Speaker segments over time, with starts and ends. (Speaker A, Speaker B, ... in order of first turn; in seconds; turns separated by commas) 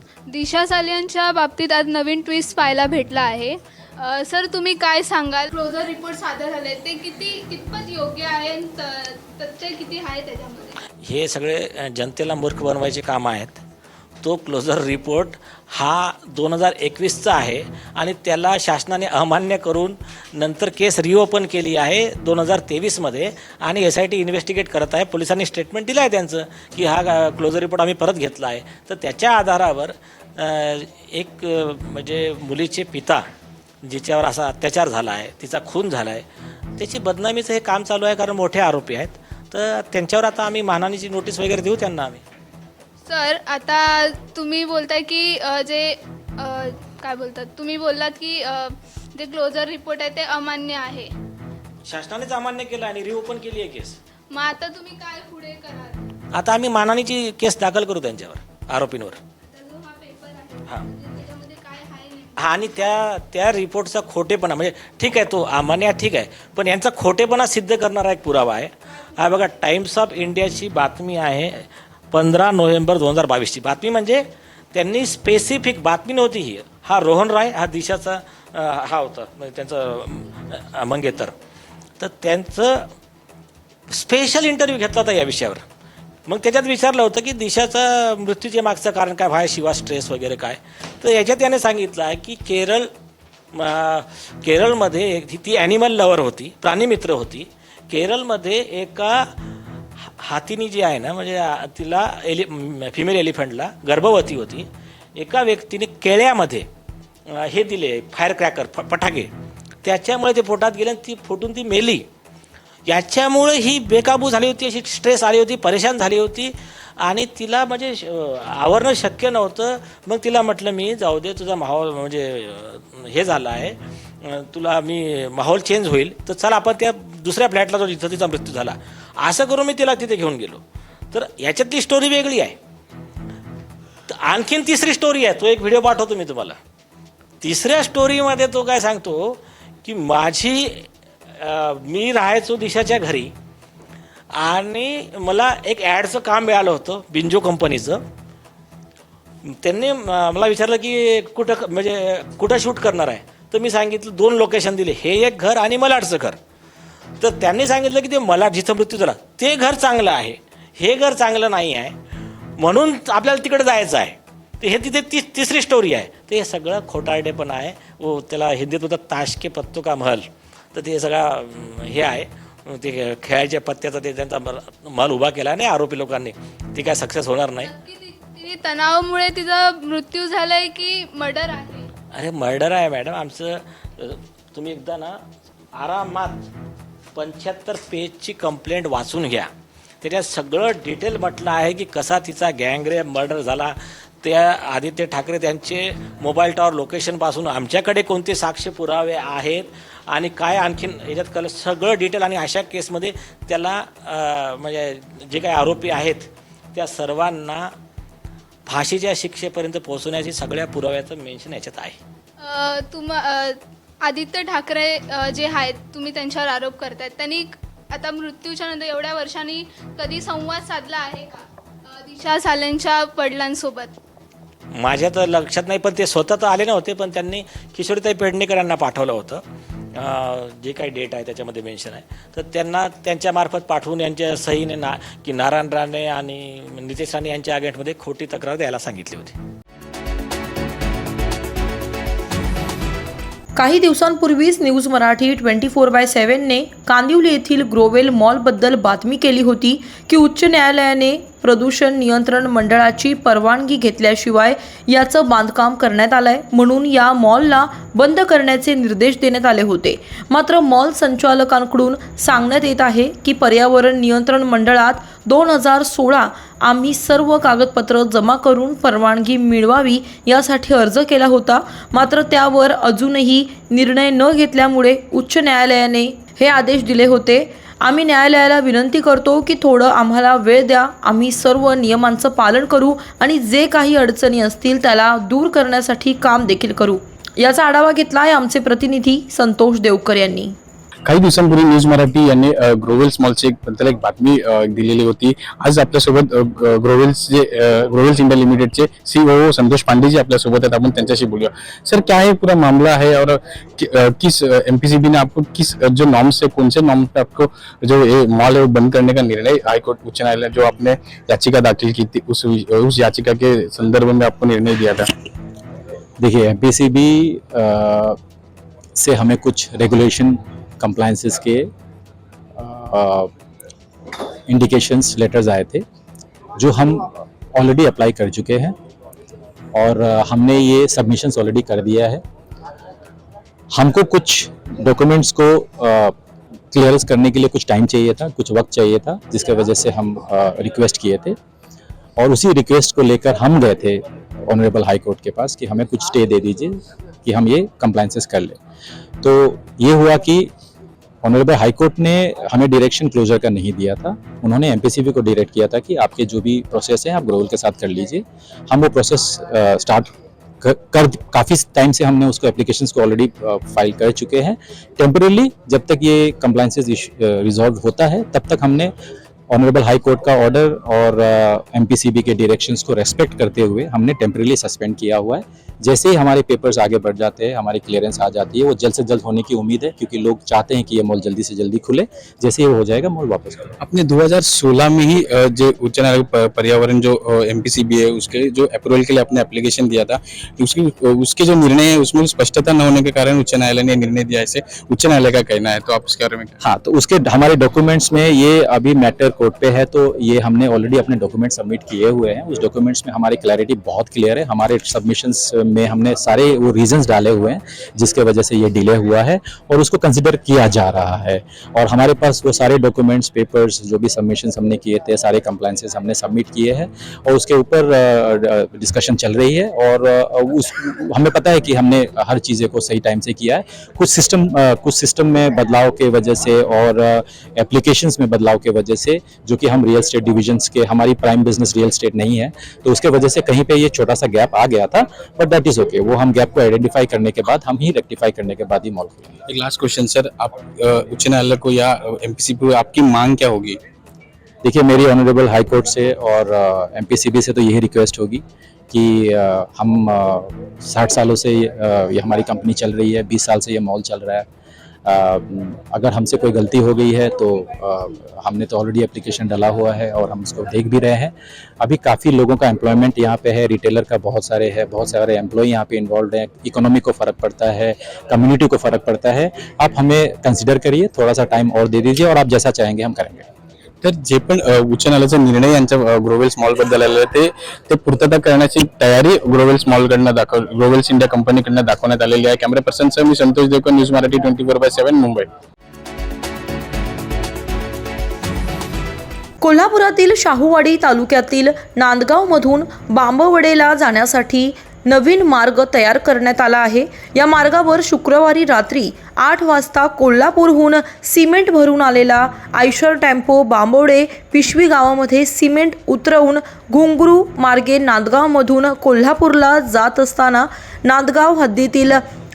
Speaker A: 0.3-10.8, Speaker B: 11.0-13.6, Speaker B: 14.2-33.2, Speaker B: 33.8-36.2, Speaker B: 36.8-42.2, Speaker A: 43.1-51.1, Speaker B: 51.9-54.0, Speaker A: 54.3-56.1, Speaker B: 56.3-59.2, Speaker A: 59.4-62.8, Speaker B: 62.4-81.3, Speaker B: 82.0-82.9, Speaker B: 83.9-85.6, Speaker B: 86.3-92.9, Speaker B: 93.5-99.3, Speaker B: 100.0-106.7, Speaker B: 107.3-109.3, Speaker B: 109.8-112.0, Speaker B: 112.9-132.6, Speaker B: 134.1-136.6, Speaker B: 137.4-143.3, Speaker B: 144.3-148.0, Speaker B: 149.5-156.4, Speaker B: 157.2-162.0, Speaker B: 162.6-177.7, Speaker A: 177.6-181.9, Speaker B: 182.1-185.2, Speaker B: 185.8-186.5, Speaker B: 187.2-189.5, Speaker B: 190.0-207.7, Speaker B: 208.7-212.0, Speaker A: 212.4-224.0, Speaker B: 224.7-229.4, Speaker B: 229.9-239.4, Speaker C: 243.6-290.6, Speaker D: 291.1-315.1, Speaker E: 316.2-318.2, Speaker E: 319.0-321.7, Speaker E: 322.6-323.3, Speaker E: 324.5-325.9, Speaker E: 326.6-328.8, Speaker E: 329.7-332.2, Speaker E: 333.7-336.1, Speaker E: 336.7-341.4, Speaker E: 342.2-348.6, Speaker E: 349.2-350.5, Speaker E: 351.2-368.9, Speaker E: 369.5-383.8, Speaker D: 383.8-396.6, Speaker E: 396.6-439.4, Speaker D: 439.5-443.8, Speaker E: 444.6-454.5, Speaker E: 455.1-473.5, Speaker D: 474.0-485.5, Speaker C: 489.6-512.2